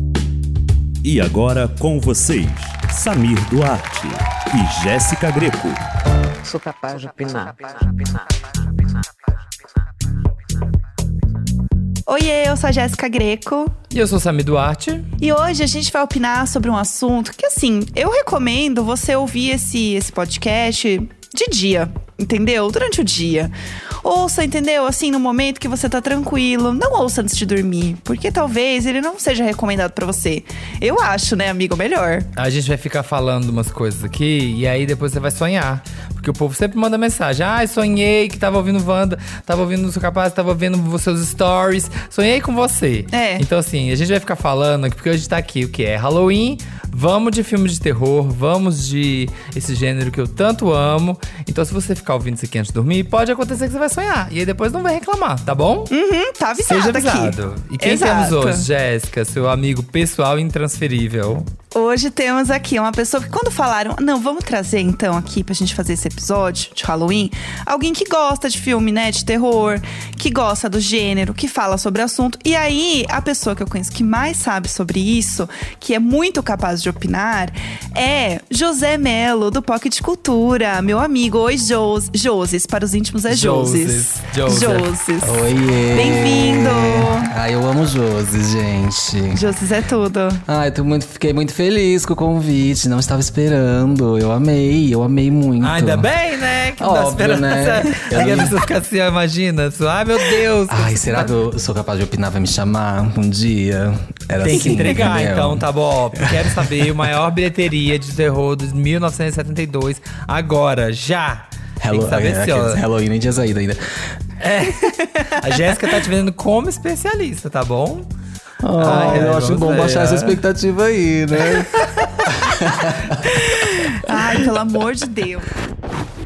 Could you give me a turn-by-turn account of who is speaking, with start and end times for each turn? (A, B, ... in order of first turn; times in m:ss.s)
0:01.0-0:05.8 A
0:06.4-0:08.4 B
0:12.1-0:13.7 C
0:13.9-0:15.1 D
0:15.2-0:32.3 C
0:32.4-0:55.9 D
0:43.1-0:43.4 C
0:55.9-0:58.6 C
0:56.6-1:01.5 D
1:01.7-1:27.3 C
1:23.3-1:24.9 D
1:25.2-1:29.4 E
1:29.3-1:30.4 C
1:30.4-1:36.1 E
1:35.6-1:41.3 D
1:36.8-1:38.6 E
1:40.7-1:47.1 E
1:44.4-1:52.8 D
1:51.8-1:53.8 E
1:54.4-1:58.0 D
1:54.8-1:55.3 C
1:58.6-2:03.4 E
1:58.8-2:00.4 D
2:03.3-2:05.5 C